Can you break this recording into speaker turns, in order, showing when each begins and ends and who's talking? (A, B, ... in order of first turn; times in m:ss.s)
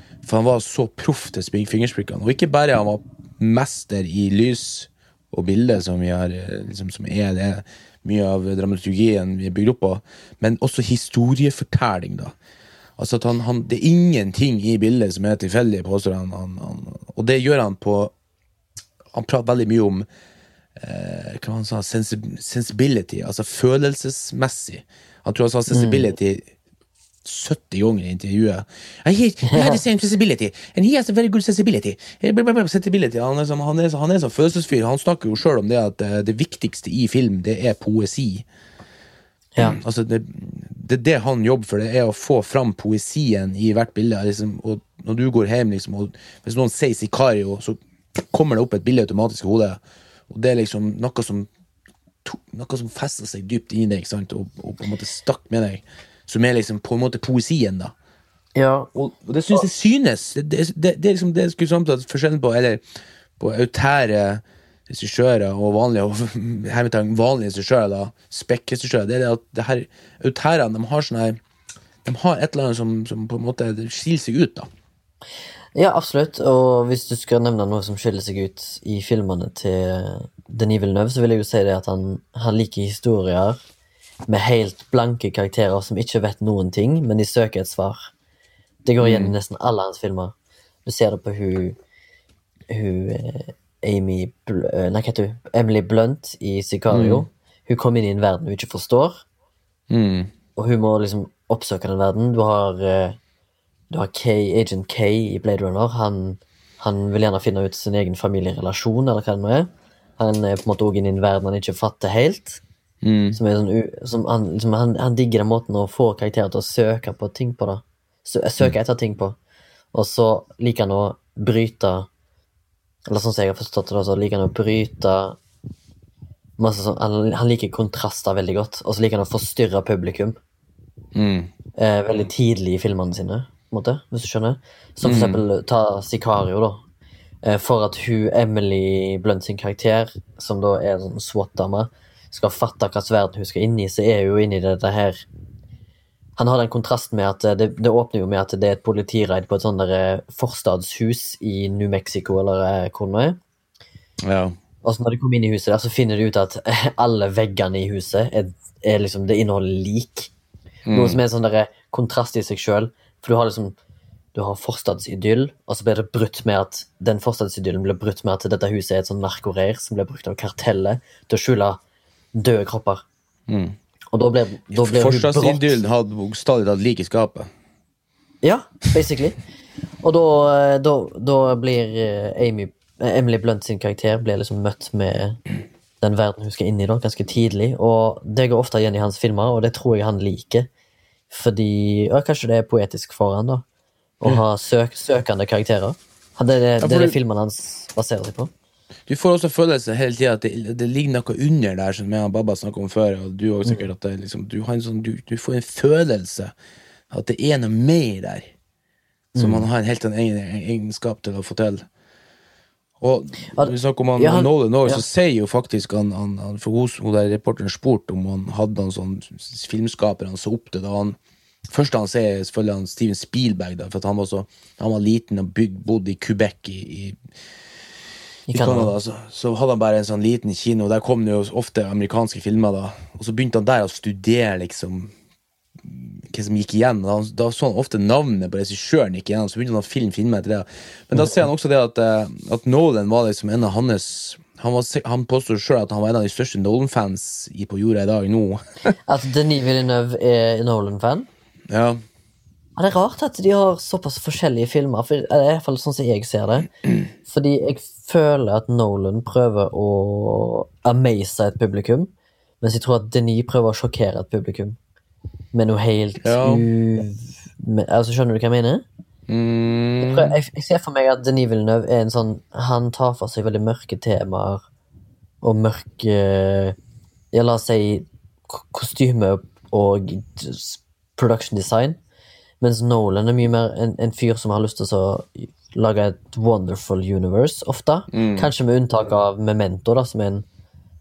0:00.2-0:12.3 A
0:13.0-0:18.1 A
0:19.1-0:20.1 A
0:20.8-0:26.5 A
0:25.7-0:26.1 B
0:27.2-0:38.5 A
0:29.5-0:29.8 B
0:39.6-0:51.5 A
0:52.2-0:57.9 A
0:58.6-0:58.9 B
0:59.0-1:02.8 A
1:03.4-1:11.4 A
1:12.0-1:14.7 A
1:15.8-1:23.6 B
1:24.3-1:28.1 B
1:28.8-1:30.3 B
1:29.0-1:29.3 A
1:30.9-1:31.8 B
1:32.7-1:39.2 B
1:36.9-1:37.2 A
1:39.9-1:40.3 A
1:40.6-1:43.2 B
1:43.9-1:52.6 B
1:53.0-1:53.4 A
1:53.4-1:59.4 B
1:59.9-2:02.1 B
2:03.1-2:05.4 B
2:06.6-2:10.4 B
2:11.2-2:11.5 A
2:11.8-2:16.8 B
2:15.0-2:15.4 A
2:17.4-2:25.2 B
2:26.4-2:33.4 B
2:34.2-2:34.6 A
2:34.8-2:40.3 B
2:40.9-2:41.2 A
2:40.9-2:43.8 B
2:44.3-2:51.8 B
2:52.4-2:53.0 B
2:53.5-2:53.8 A
2:54.1-2:55.8 B
2:54.7-2:57.5 A
2:58.4-2:59.4 B
3:00.0-3:05.4 B
3:06.0-3:10.7 B
3:11.3-3:13.6 B
3:14.2-3:18.5 B
3:16.8-3:17.2 A
3:19.1-3:26.5 A
3:27.1-3:28.5 A
3:29.4-3:29.7 B
3:29.4-3:31.9 A
3:33.0-3:41.2 A
3:33.5-3:35.0 B
3:41.7-3:47.2 A
3:48.5-3:48.9 B
3:48.5-3:55.1 A
3:55.8-4:08.9 A
4:01.2-4:01.4 B
4:09.1-4:11.3 B
4:11.7-4:12.0 A
4:12.8-4:16.7 B
4:17.3-4:24.8 B
4:25.5-4:28.8 B
4:26.2-4:26.6 A
4:29.3-4:30.4 A
4:30.0-4:34.6 B
4:35.4-4:36.8 B
4:37.3-4:42.0 B
4:42.6-4:50.4 B
4:48.1-4:48.5 A